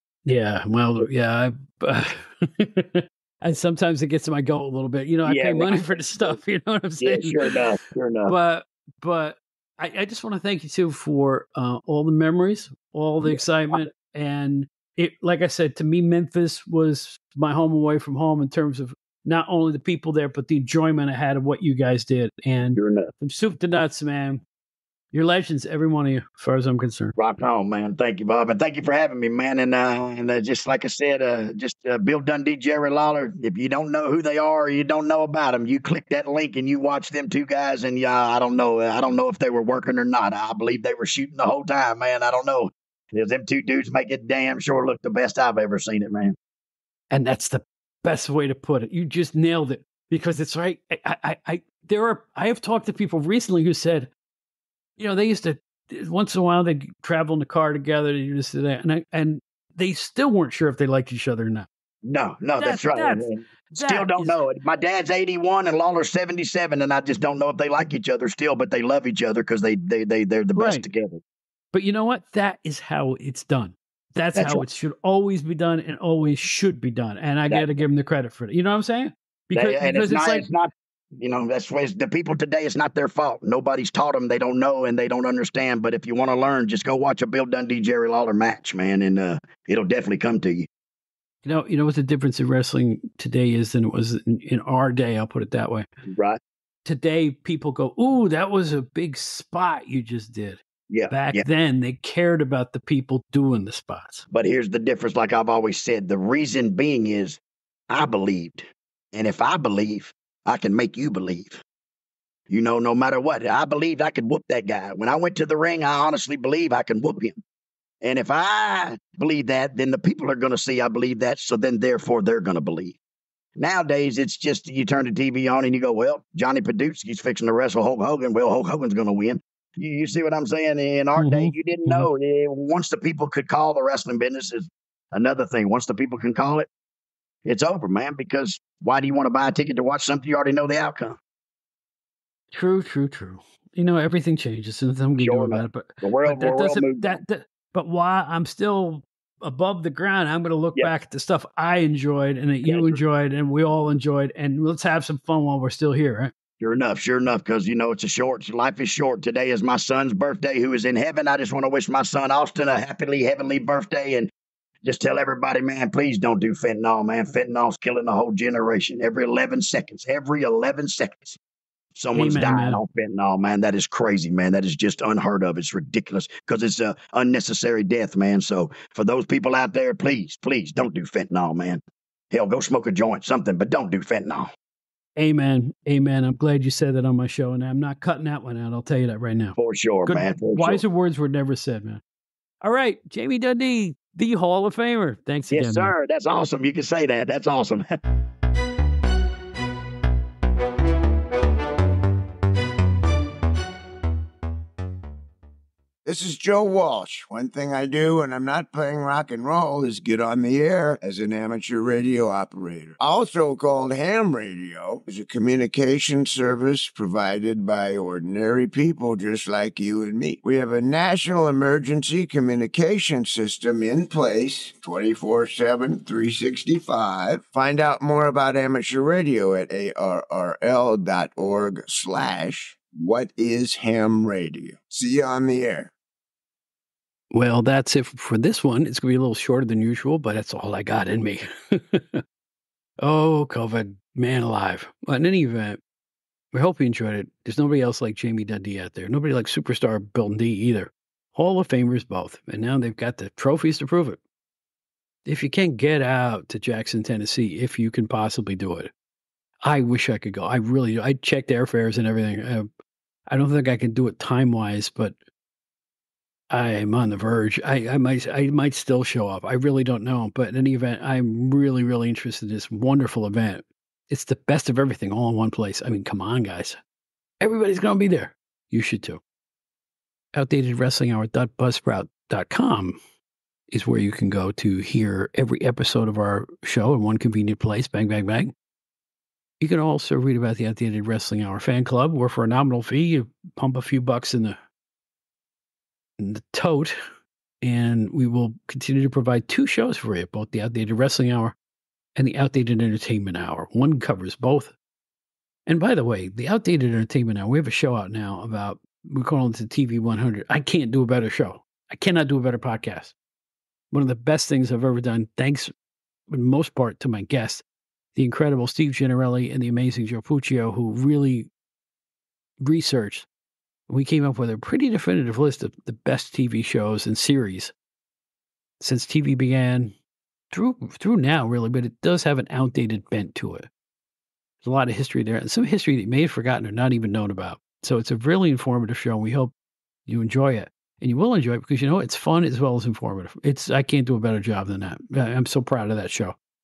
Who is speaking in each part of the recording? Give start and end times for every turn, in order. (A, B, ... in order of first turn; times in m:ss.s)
0:00.2-0:07.6 A
0:05.2-0:06.4 B
0:07.0-0:08.4 B
0:08.3-0:24.4 A
0:13.2-0:13.8 B
0:22.7-0:23.1 B
0:25.1-0:27.1 A
0:27.2-0:46.3 B
0:47.1-0:54.1 A
0:55.0-1:01.7 A
1:02.0-1:11.2 B
1:02.6-1:04.4 A
1:10.6-1:10.9 A
1:11.7-1:20.4 A
1:14.3-1:14.6 B
1:19.5-1:30.7 B
1:31.4-1:35.8 A
1:36.1-1:36.4 B
1:36.8-1:44.2 A
1:40.9-1:41.4 B
1:44.3-1:51.6 B
1:52.5-1:57.4 B
1:58.0-2:03.0 B
2:03.6-2:16.7 B
2:11.2-2:12.1 A
2:17.4-2:21.2 B
2:22.5-2:36.3 A
2:25.2-2:27.2 B
2:32.6-2:33.0 B
2:36.6-2:44.3 B
2:44.8-2:51.4 B
2:52.0-3:04.5 B
2:52.1-2:52.8 A
3:05.2-3:12.0 A
3:09.6-3:10.8 B
3:12.6-3:15.9 A
3:15.5-3:17.9 B
3:26.0-3:55.9 C
3:57.3-4:02.2 A
4:03.0-4:05.8 A
4:06.5-4:14.2 A
4:15.2-4:18.9 A
4:19.6-4:22.7 A
4:23.3-4:25.2 A
4:26.5-4:36.8 A
4:37.4-4:39.2 A
4:40.3-4:43.0 A
4:43.7-4:48.5 A
4:49.6-4:54.6 A
4:56.2-4:57.0 A
4:57.6-5:01.5 A
5:02.2-5:04.7 A
5:05.7-5:13.1 A
5:13.9-5:15.7 A
5:16.3-5:17.6 A
5:18.1-5:21.5 A
5:22.6-5:23.3 A
5:23.9-5:27.7 A
5:28.8-5:29.9 A
5:30.5-5:33.7 A
5:34.6-5:39.5 A
5:40.0-5:46.4 A